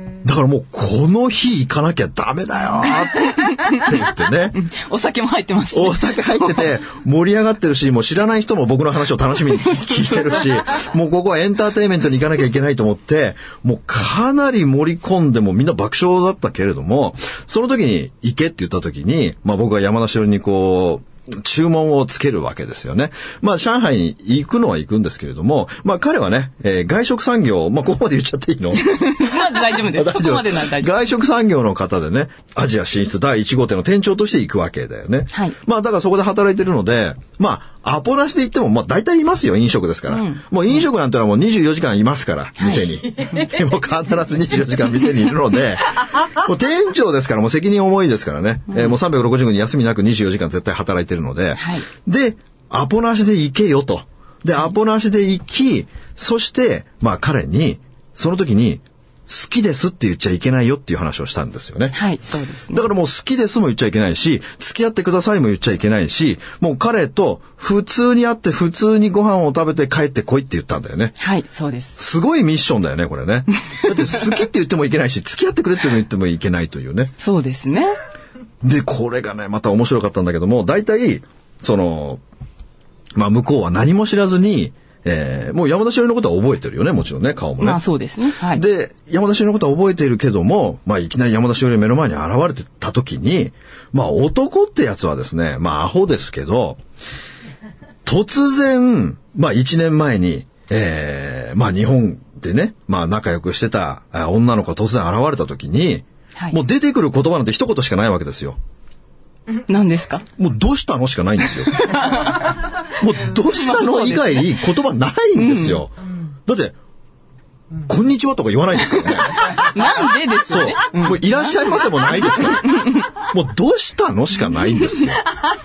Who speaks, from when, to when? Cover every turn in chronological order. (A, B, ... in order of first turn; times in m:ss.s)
0:00.2-0:04.6 A
0:03.2-0:03.9 B
0:04.6-0:06.6 B
0:05.7-0:28.9 A
0:09.6-0:10.5 B
0:28.8-0:30.9 B
0:29.7-1:02.0 A
0:40.1-0:40.4 B
0:42.6-0:42.9 B
0:51.6-0:51.9 B
1:01.9-1:02.9 B
1:02.7-1:11.1 A
1:11.2-1:12.0 B
1:12.0-1:17.1 A
1:17.2-1:18.0 B
1:18.6-1:22.2 A
1:23.2-1:27.8 A
1:27.6-1:28.6 B
1:28.4-1:36.8 A
1:38.1-1:48.6 A
1:49.6-1:50.2 B
1:50.4-1:52.3 A
1:51.7-1:52.7 B
1:52.9-1:55.9 A
1:53.5-1:54.6 B
1:55.4-1:55.8 B
1:56.5-1:56.8 A
1:57.8-1:59.9 A
1:59.3-2:01.6 B
2:00.5-2:05.2 A
2:02.2-2:03.1 B